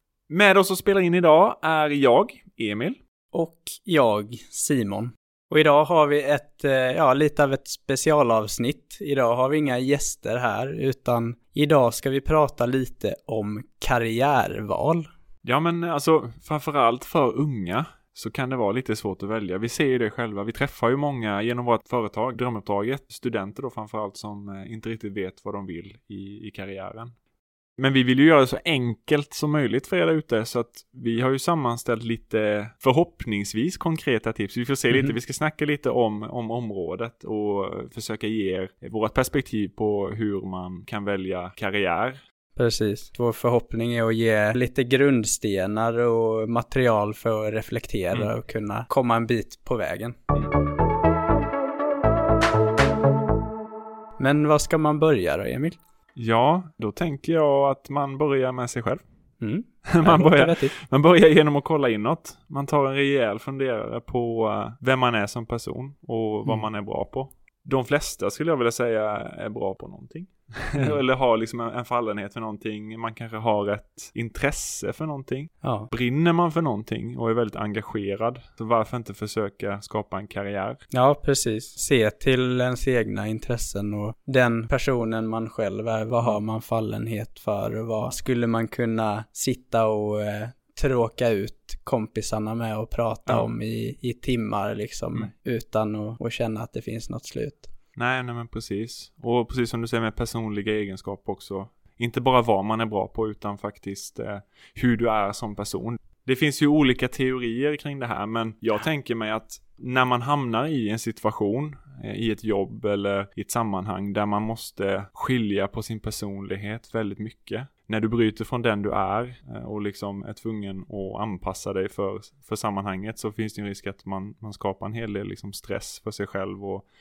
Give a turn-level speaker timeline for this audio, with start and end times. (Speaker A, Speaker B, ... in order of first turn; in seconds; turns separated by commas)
Speaker A: 0.3-3.0, Speaker B: 3.3-15.1, Speaker A: 15.4-27.1, Speaker A: 27.8-42.2, Speaker B: 42.6-50.1, Speaker B: 54.2-55.8, Speaker A: 56.2-59.0, Speaker B: 59.4-60.7, Speaker A: 59.9-80.8, Speaker B: 75.6-75.9, Speaker B: 80.9-97.7, Speaker A: 98.0-126.9